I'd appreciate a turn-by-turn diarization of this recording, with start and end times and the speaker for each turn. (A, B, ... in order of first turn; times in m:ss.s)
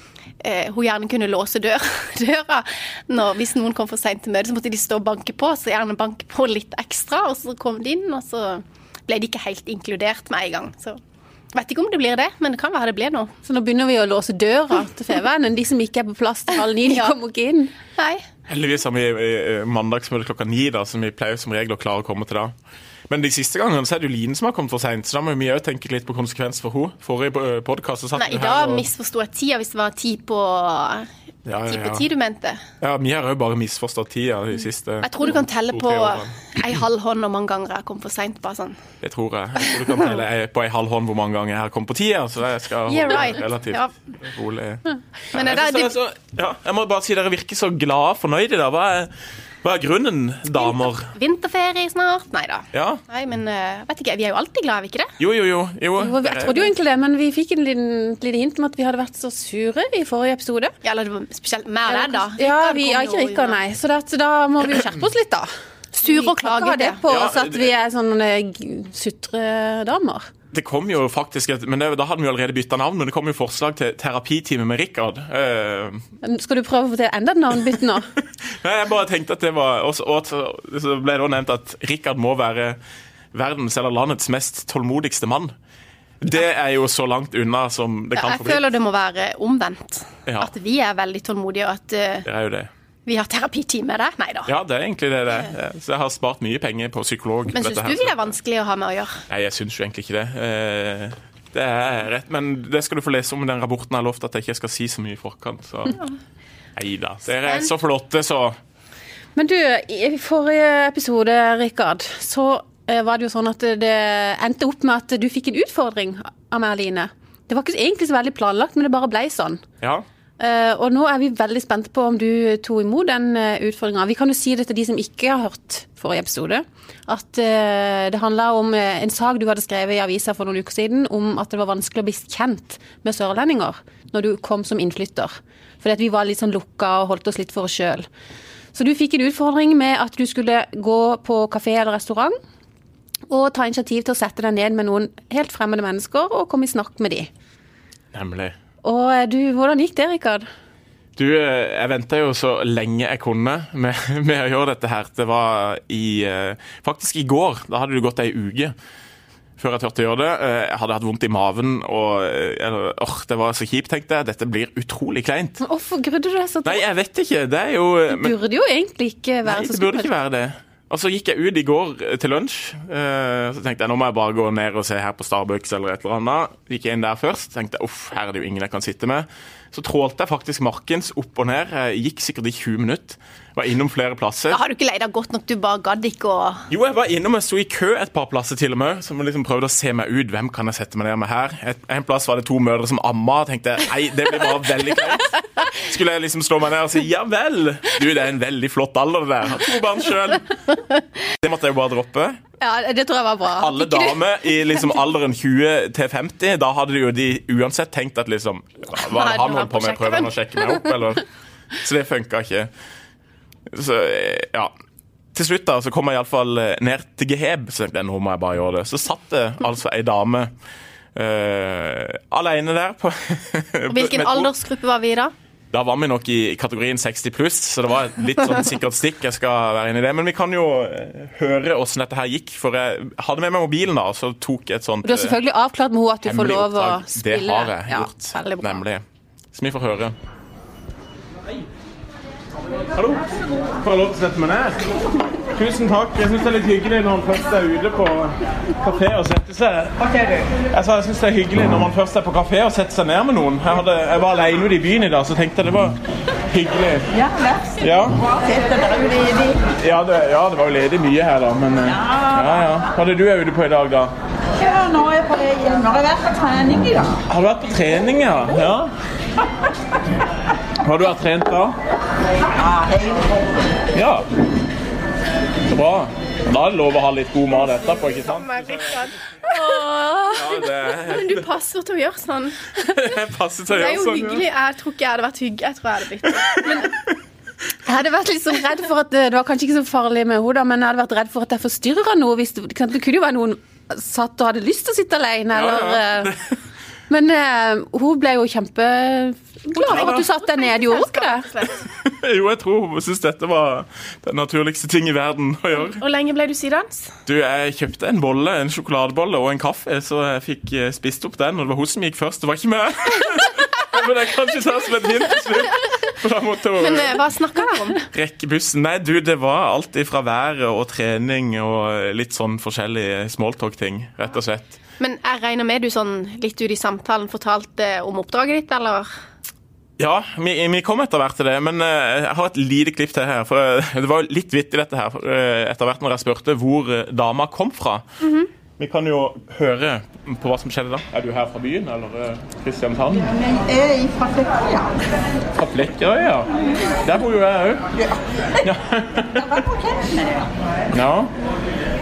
0:00.4-0:11.0 A
0:11.5-0:13.3 A
0:13.4-0:17.7 B
0:16.9-0:17.1 A
0:18.0-0:18.2 A
0:18.5-0:22.5 C
0:23.1-0:28.9 C
0:28.2-0:31.1 A
0:31.4-0:32.0 C
0:31.7-0:32.6 A
0:32.8-0:36.5 C
0:35.0-0:38.8 A
0:39.0-0:49.1 C
0:39.7-0:40.0 A
0:42.9-0:43.9 A
0:45.3-0:45.9 A
0:49.6-0:51.1 C
0:50.6-0:55.1 A
0:52.7-0:53.0 C
0:55.2-0:56.7 C
0:56.0-1:00.7 B
1:00.8-1:03.6 A
1:01.9-1:05.5 B
1:05.9-1:07.0 A
1:06.0-1:10.3 B
1:07.0-1:07.7 C
1:10.5-1:16.0 C
1:16.2-1:18.0 B
1:18.4-1:22.8 C
1:23.3-1:25.5 C
1:26.2-1:28.6 C
1:28.2-1:32.2 A
1:30.2-1:30.5 C
1:32.2-1:32.7 C
1:33.0-1:34.5 A
1:34.5-1:38.3 C
1:37.5-1:39.2 A
1:39.3-1:46.0 C
1:46.8-1:48.6 C
1:49.4-1:59.6 B
2:00.4-2:18.0 B
2:18.7-2:22.4 B
2:23.3-2:27.3 B
2:28.1-2:28.5 C
2:28.8-2:30.4 B
2:31.2-2:38.7 C
2:39.6-2:45.6 C
2:45.6-2:46.8 B
2:46.6-2:48.4 C
2:48.1-2:50.1 B
2:49.4-3:04.6 C
3:04.5-3:06.7 A
3:06.7-3:20.6 C
3:21.4-3:22.4 C
3:22.6-3:23.9 B
3:23.6-3:31.2 C
3:29.0-3:30.8 A
3:31.8-3:32.7 C
3:33.7-3:34.7 C
3:35.3-3:40.5 C
3:41.1-3:44.5 C
3:43.9-3:45.3 A
3:45.7-3:55.4 C
3:55.0-3:58.8 B
3:56.2-4:00.2 C
4:02.9-4:04.8 C
4:05.5-4:10.0 C
4:10.7-4:16.0 C
4:16.5-4:17.1 C
4:17.1-4:19.6 D
4:17.8-4:18.2 C
4:19.8-4:24.1 C
4:21.9-4:22.6 D
4:24.6-4:27.2 D
4:27.3-4:28.9 C
4:30.8-4:31.8 C
4:32.5-4:33.7 D
4:33.9-4:34.3 C
4:35.6-4:39.0 C
4:38.2-4:42.8 A
4:39.5-4:40.4 B
4:40.3-4:41.5 C
4:42.8-4:44.4 C
4:43.7-4:47.0 A
4:46.3-4:46.9 C
4:47.8-4:56.3 B
4:55.5-4:56.4 C
4:57.1-5:01.5 B
4:59.8-5:01.9 A
4:59.9-5:00.2 C
5:01.8-5:06.0 C
5:05.8-5:07.2 A
5:07.2-5:17.2 C
5:16.8-5:18.0 A
5:18.0-5:24.8 C
5:25.0-5:29.1 A
5:30.0-5:38.0 C
5:38.2-5:38.5 A
5:38.8-5:43.3 C
5:43.3-5:45.0 D
5:45.6-5:47.9 C
5:48.0-5:48.7 D
5:48.6-5:49.6 C
5:49.2-5:50.5 D
5:50.9-5:51.3 C